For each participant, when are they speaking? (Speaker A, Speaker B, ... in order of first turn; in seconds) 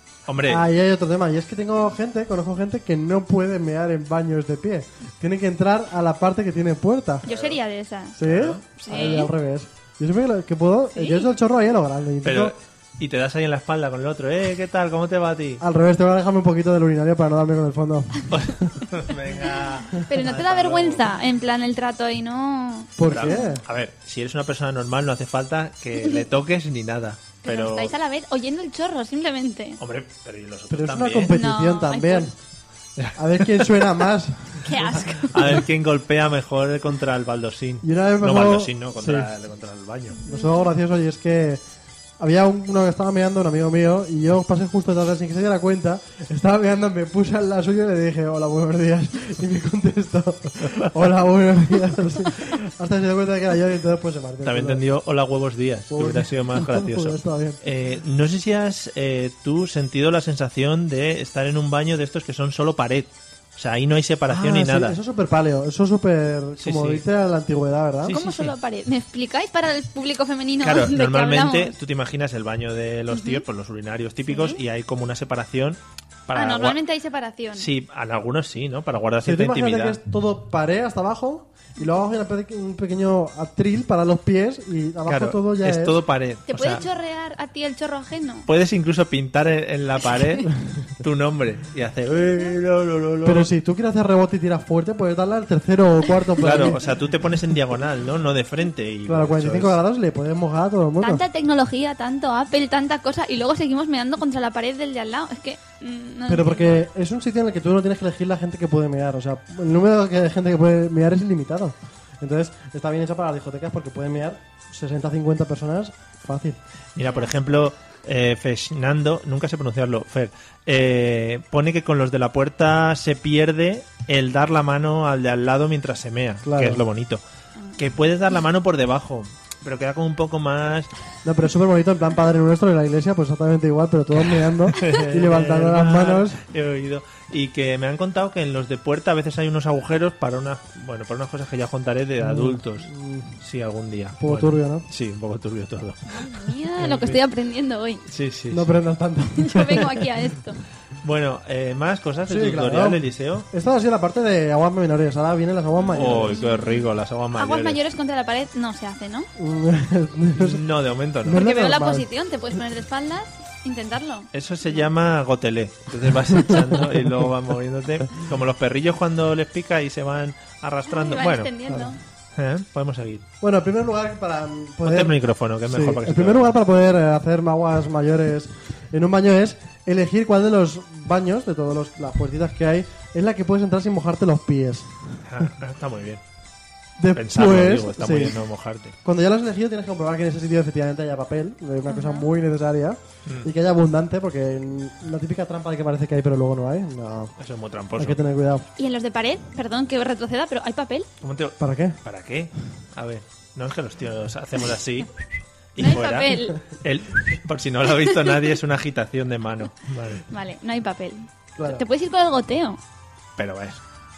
Speaker A: 0.3-0.7, 7.3-7.6, 8.2-8.6, 12.2-15.6, 18.3-21.1, 23.1-27.9, 29.8-31.4, 33.0-33.8, 35.1-40.2, 50.6-51.1, 54.5-65.0, 66.6-67.0, 68.0-68.5, 70.6-76.8, 77.5-80.0, 85.1-86.8, 88.5-93.5, 96.4-99.8, 117.0-127.2, 127.8-130.9, 134.1-146.2, 148.1-148.7, 151.0-153.5, 156.0-157.8, 160.4-161.4, 164.3-171.5, 172.3-173.2, 174.8-176.6, 185.2-186.2, 187.1-189.0, 193.3-193.5, 197.4-198.2, 201.2-205.1, 205.8-210.2, 213.4-213.8
Speaker B: 0.5-7.3, 8.2-12.5, 15.6-18.7, 23.0-23.6, 30.7-32.4, 33.2-34.9, 37.8-39.3, 40.2-41.6, 42.2-54.8, 55.9-57.6, 64.3-68.2, 79.2-86.0, 93.2-96.8, 99.1-101.2, 106.3-116.6, 126.4-126.8, 131.2-136.4, 142.2-143.4, 144.2-144.9, 146.8-147.2, 148.5-150.1, 152.3-156.4, 159.4-160.6, 161.2-162.1, 173.4-185.5, 187.0-188.4, 189.0-197.3, 198.0-198.7, 201.6-202.0, 211.6-211.8
Speaker C: 7.2-9.3, 10.9-11.3, 20.0-23.6, 27.4-29.8, 31.3-32.3, 34.6-35.6, 40.2-40.7, 68.1-71.8, 73.1-73.4, 74.3-74.6, 76.3-77.7, 86.5-88.5, 101.0-106.8, 146.1-148.0, 149.4-150.6, 155.8-159.3, 161.3-164.8, 170.9-172.0, 191.9-192.3, 198.8-201.1, 205.8-206.6, 210.3-212.8